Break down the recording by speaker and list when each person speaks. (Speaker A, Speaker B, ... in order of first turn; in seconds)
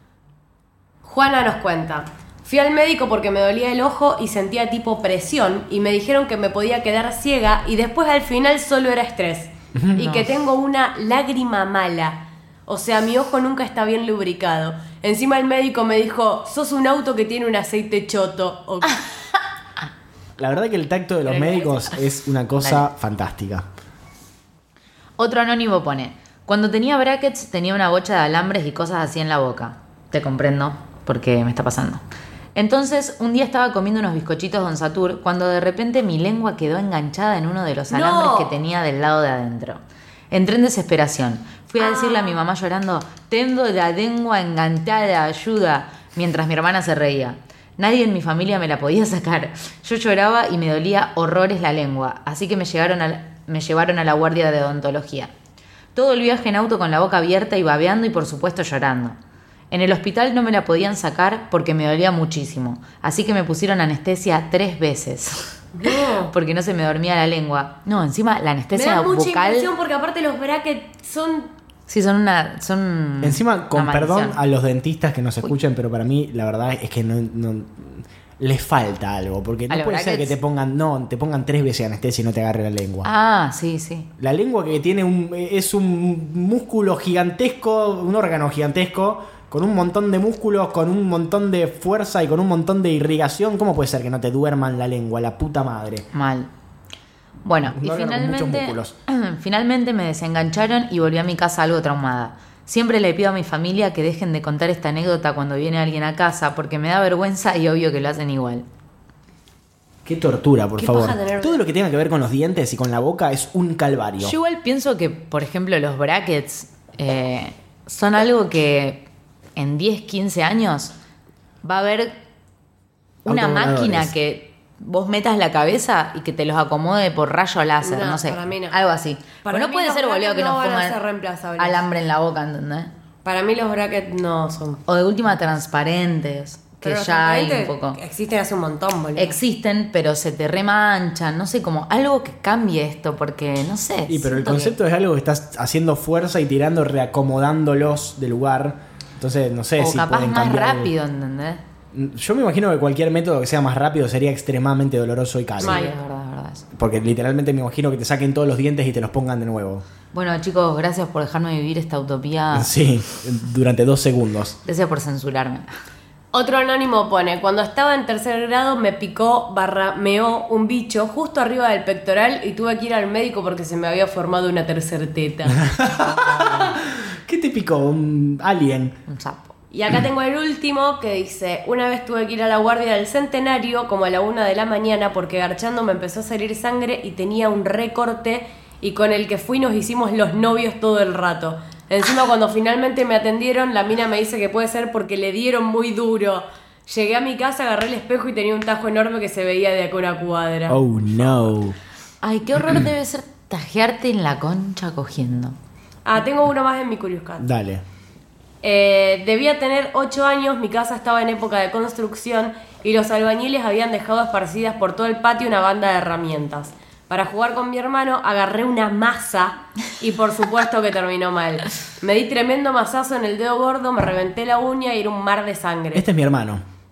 Speaker A: 1.0-18.9, 21.3-22.0, 37.9-38.5, 41.8-42.4, 65.8-66.3, 68.7-71.5, 110.8-111.7, 127.8-128.8, 129.4-131.8, 133.2-134.8, 136.8-139.4, 155.6-156.0, 166.3-175.6, 179.7-200.8, 206.1-207.5, 208.6-226.1
Speaker B: 9.8-10.2, 20.4-23.7, 73.2-83.1, 84.2-96.1, 97.7-99.0, 110.0-114.3, 123.3-124.1, 144.1-150.9, 151.9-155.8, 156.7-159.8, 162.5-164.6, 175.6-179.0, 200.7-201.8, 207.4-207.8, 225.9-226.6
Speaker C: 25.2-32.0, 32.5-55.3, 55.9-59.2, 59.7-69.7, 71.9-74.4, 79.7-80.3, 83.0-84.1, 96.1-96.5, 97.5-108.7, 114.2-120.9, 121.6-122.2, 123.2-131.0, 131.6-132.9, 134.9-138.0, 139.2-144.8, 149.8-151.6, 155.6-156.7, 160.1-162.7, 164.7-165.8, 179.1-179.5, 202.2-205.6